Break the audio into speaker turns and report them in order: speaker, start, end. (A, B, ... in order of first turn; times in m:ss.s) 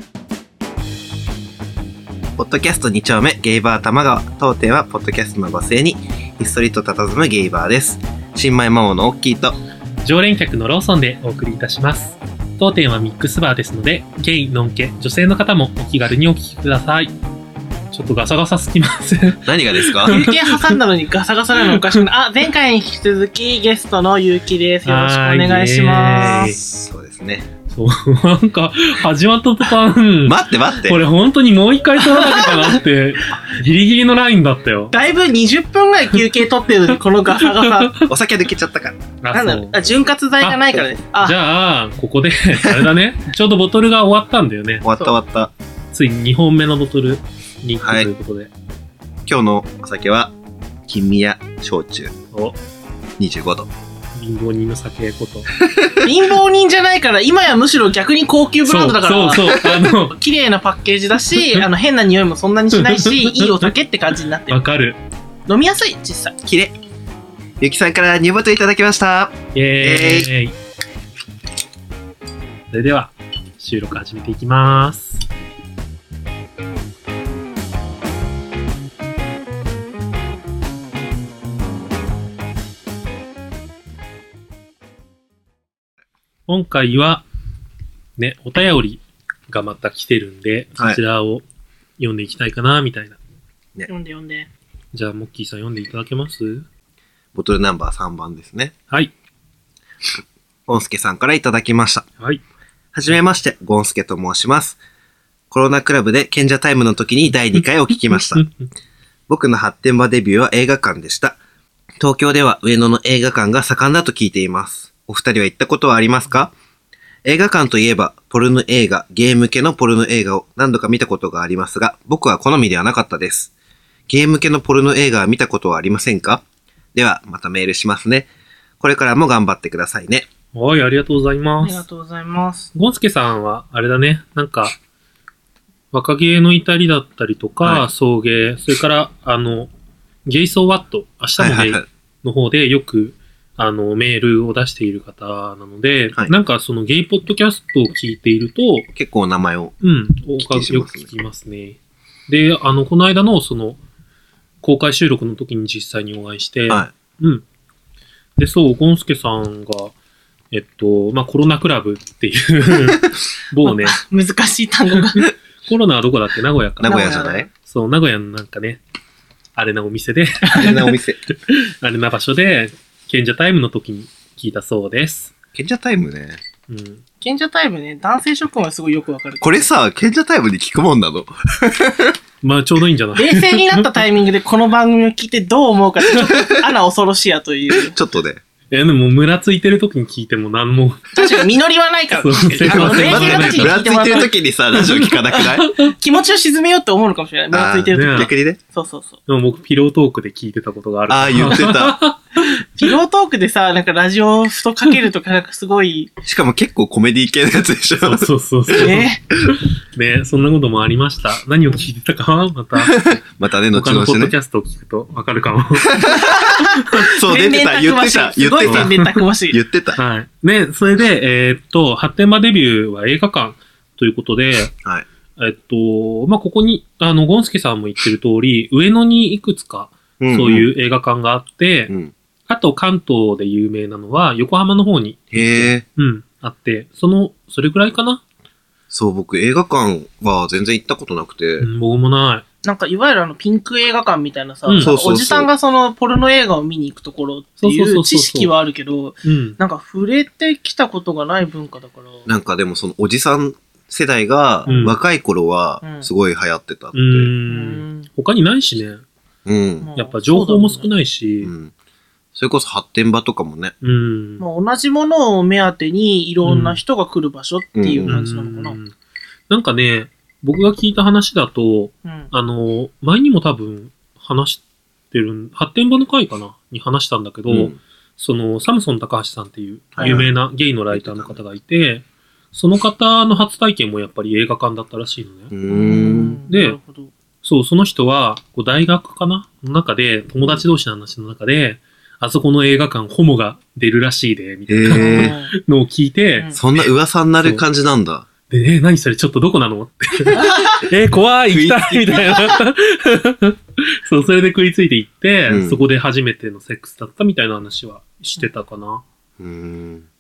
0:02.4-0:09.6 A
0:10.0-0:17.1 B
0:17.9-0:20.8 B
0:19.4-0:20.2 A
0:20.1-0:26.6 C
0:24.9-0:26.6 B
0:26.4-0:27.5 A
0:27.7-0:34.9 B
0:30.2-0:31.0 A
0:32.0-0:32.8 C
0:34.9-0:37.9 C
0:37.4-0:38.1 B
0:38.1-0:39.0 A
0:39.2-0:39.8 B
0:39.3-0:41.4 C
0:40.4-0:44.8 B
0:42.6-0:42.9 A
0:44.8-0:45.5 A
0:45.9-0:48.5 B
0:47.8-0:48.1 A
0:49.3-0:50.3 A
0:50.9-0:52.1 A
0:53.2-0:53.7 A
0:54.2-0:55.5 B
0:55.6-0:56.1 A
0:56.0-1:04.6 C
0:58.7-1:00.2 B
1:02.8-1:03.7 B
1:04.5-1:05.0 B
1:05.5-1:06.4 C
1:06.4-1:06.7 A
1:07.6-1:10.3 A
1:09.5-1:10.5 B
1:12.7-1:15.2 B
1:26.5-1:27.2 B
1:28.2-1:31.4 B
1:32.0-1:33.2 B
1:33.9-1:34.5 C
1:34.9-1:36.6 B
1:37.3-1:38.7 A
1:40.7-1:42.1 A
1:42.9-1:44.8 A
1:45.5-1:48.5 A
1:48.0-1:48.7 B
1:49.3-1:51.4 A
1:52.0-1:56.5 A
1:57.2-2:03.5 A
2:04.1-2:06.4 A
2:07.0-2:08.3 A
2:08.8-2:10.3 A
2:10.5-2:11.8 B
2:11.6-2:12.7 C
2:12.8-2:14.8 B
2:15.9-2:19.7 B
2:20.3-2:28.9 B
2:21.4-2:21.9 A
2:29.0-2:29.7 A
2:29.8-2:33.8 B
2:30.4-2:31.1 A
2:34.6-2:37.4 B
2:38.4-2:39.9 B
2:40.5-2:44.0 B
2:43.6-2:45.3 C
2:45.7-2:48.8 B
2:46.8-2:47.5 A
2:46.8-2:47.5 C
2:49.6-2:51.0 B
2:50.5-2:51.2 A
2:51.5-2:55.3 B
2:55.5-2:56.4 A
2:56.7-2:57.0 B
2:57.2-2:59.7 C
2:59.4-3:02.2 A
3:02.4-3:03.9 B
3:03.2-3:08.0 C
3:07.7-3:08.4 A
3:08.7-3:11.1 B
3:11.1-3:14.3 C
3:12.1-3:13.8 B
3:12.6-3:15.7 A
3:15.3-3:19.2 C
3:17.5-3:18.6 A
3:17.9-3:18.3 B
3:19.3-3:22.9 B
3:21.1-3:22.0 A
3:22.4-3:26.1 C
3:26.2-3:29.5 A
3:28.0-3:33.1 B
3:28.7-3:29.2 C
3:32.8-3:34.4 A
3:33.7-3:36.0 B
3:35.8-3:36.4 A
3:36.1-3:39.6 C
3:37.0-3:40.0 A
3:38.6-3:39.2 B
3:40.0-3:44.7 B
3:45.4-3:51.9 B
3:50.2-3:50.7 A
3:52.5-3:58.2 B
3:55.3-3:55.8 A
3:58.9-4:01.7 A
4:01.6-4:02.4 B
4:02.6-4:12.3 C
4:04.7-4:04.9 B
4:04.8-4:05.5 A
4:07.6-4:08.5 B
4:09.2-4:09.6 B
4:12.3-4:17.3 A
4:14.7-4:14.9 C
4:14.7-4:14.9 B
4:15.8-4:16.1 C
4:16.9-4:19.0 B
4:17.5-4:18.1 C
4:19.5-4:19.9 A
4:19.8-4:20.9 C
4:20.0-4:21.5 B
4:21.4-4:21.7 A
4:22.4-4:23.7 A
4:23.8-4:24.4 B
4:24.4-4:28.8 C
4:26.4-4:26.8 B
4:27.8-4:28.2 A
4:28.1-4:28.9 B
4:29.5-4:45.5 B
4:32.0-4:32.3 C
4:37.5-4:37.8 A
4:40.0-4:40.3 A
4:40.0-4:40.2 C
4:40.9-4:41.4 A
4:45.5-4:46.4 A
4:45.7-4:47.1 C
4:46.5-4:46.8 B
4:47.4-4:56.8 B
4:54.7-4:55.4 A
4:54.9-4:55.5 C
4:56.5-4:58.3 A
4:58.5-5:09.0 B
5:00.3-5:00.8 C
5:01.5-5:02.6 A
5:05.5-5:05.8 A
5:09.4-5:10.0 A